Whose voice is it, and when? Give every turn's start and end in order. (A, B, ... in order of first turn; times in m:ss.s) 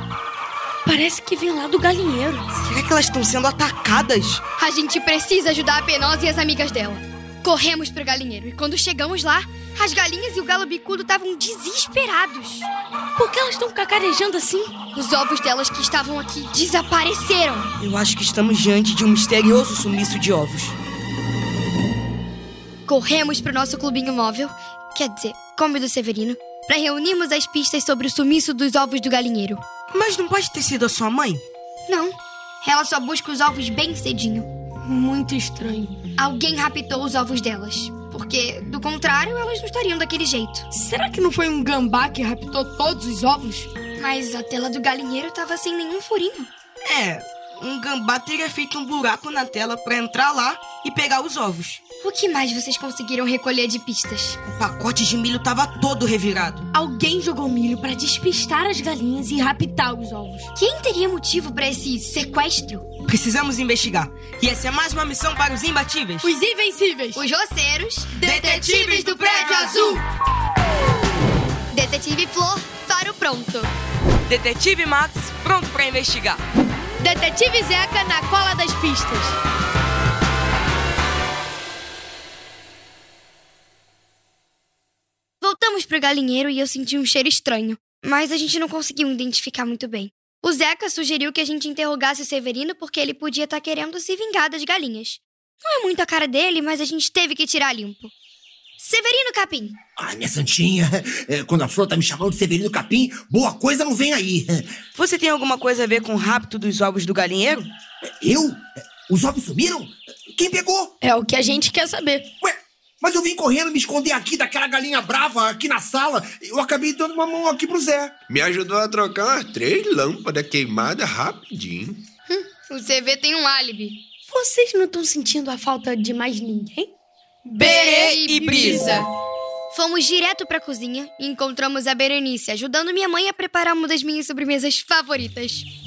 0:00.8-0:02.5 A
0:02.6-0:04.4 B
0:04.6-0:12.7 C
0:13.2-0:14.8 A
0:14.9-0:17.7 C
0:17.8-0:20.8 B
0:22.9-0:29.6 C
0:29.9-0:31.4 B
0:31.9-0:34.5 C
0:34.9-0:36.0 A
0:36.2-0:40.7 C
0:40.7-0:43.7 A
0:44.0-0:46.5 C
0:46.8-0:51.8 B
0:52.0-0:54.4 C
0:54.5-0:56.6 B
0:56.7-1:00.5 A
1:00.6-1:02.9 C
1:03.0-1:06.3 B
1:06.2-1:07.2 A
1:07.2-1:10.0 C
1:08.2-1:10.0 A
1:08.2-1:10.0 B
1:11.7-1:13.7 C
1:14.3-1:16.4 B
1:17.0-1:19.4 A
1:25.4-1:38.1 C
1:38.8-1:39.8 C
1:40.0-1:44.8 D
1:45.0-1:47.7 B
1:48.2-1:50.9 D
1:51.0-1:52.3 A
1:52.4-1:58.2 D
1:58.3-2:02.0 E
2:02.3-2:04.0 C
2:04.3-2:06.9 A
2:07.4-2:09.1 A
2:07.6-2:09.1 C
2:07.6-2:09.0 B
2:09.7-2:15.7 C